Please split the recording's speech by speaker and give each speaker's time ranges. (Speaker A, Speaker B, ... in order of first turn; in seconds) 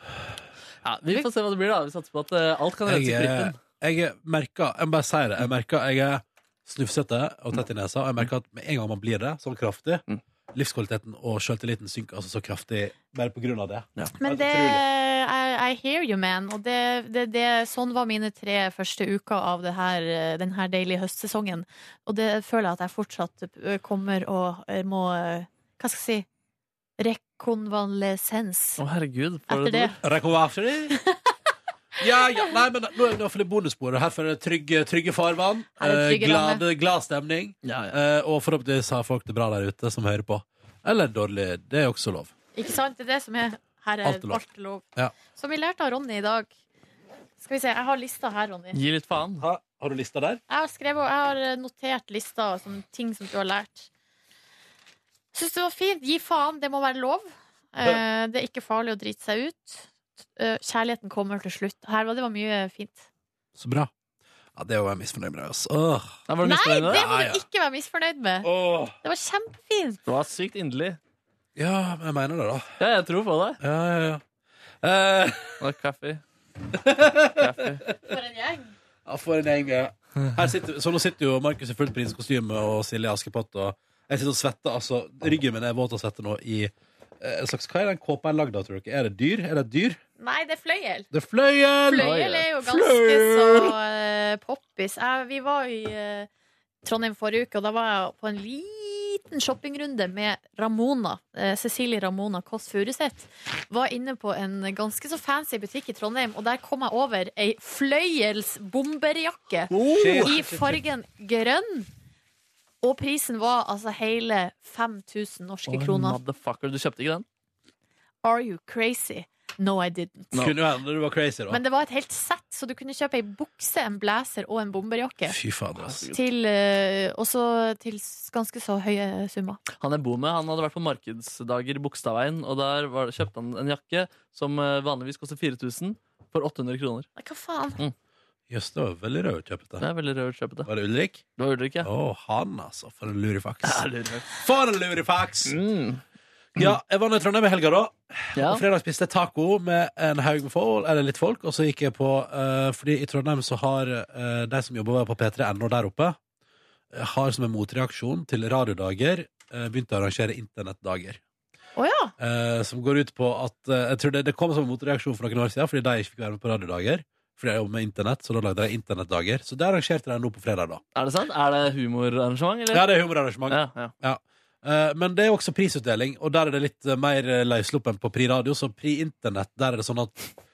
Speaker A: 0.8-3.6, 28.8-30.0, 37.6-38.0, 48.7-49.5, 66.3-67.0, 70.1-71.0, 72.8-73.6, 75.6-76.2, 77.4-77.8, 92.0-92.9, 109.7-110.3, 115.7-117.3, 125.8-126.2, 129.8-137.1, 139.8-140.7, 141.4-141.9, 143.7-144.3, 145.5-146.0, 148.4-148.6, 170.9-172.9, 173.5-173.9
Speaker B: 2.9-14.8, 30.0-31.0, 32.0-42.3, 44.0-44.4, 49.4-50.4, 63.6-63.9, 64.5-66.2, 66.9-67.4, 68.4-69.0, 71.6-72.7, 73.6-74.2, 74.8-75.6, 76.7-78.1, 79.1-90.0, 91.1-92.1, 92.9-93.3, 109.9-110.8, 120.4-121.6, 125.3-126.1, 138.5-139.8, 140.7-141.2, 141.8-145.6, 146.6-156.2, 156.9-161.2, 162.2-170.8, 172.7-180.2
Speaker C: 14.2-26.3, 27.0-28.8, 29.5-29.9, 30.9-31.3, 35.8-36.6, 42.5-46.5, 47.4-48.8, 50.5-53.9, 55.3-63.1, 66.4-68.5, 69.0-70.0, 78.1-78.7, 90.2-91.1, 91.9-96.3, 96.8-111.9, 112.8-116.2, 118.2-120.4, 121.5-125.4, 126.1-129.6, 137.2-137.8, 161.8-162.1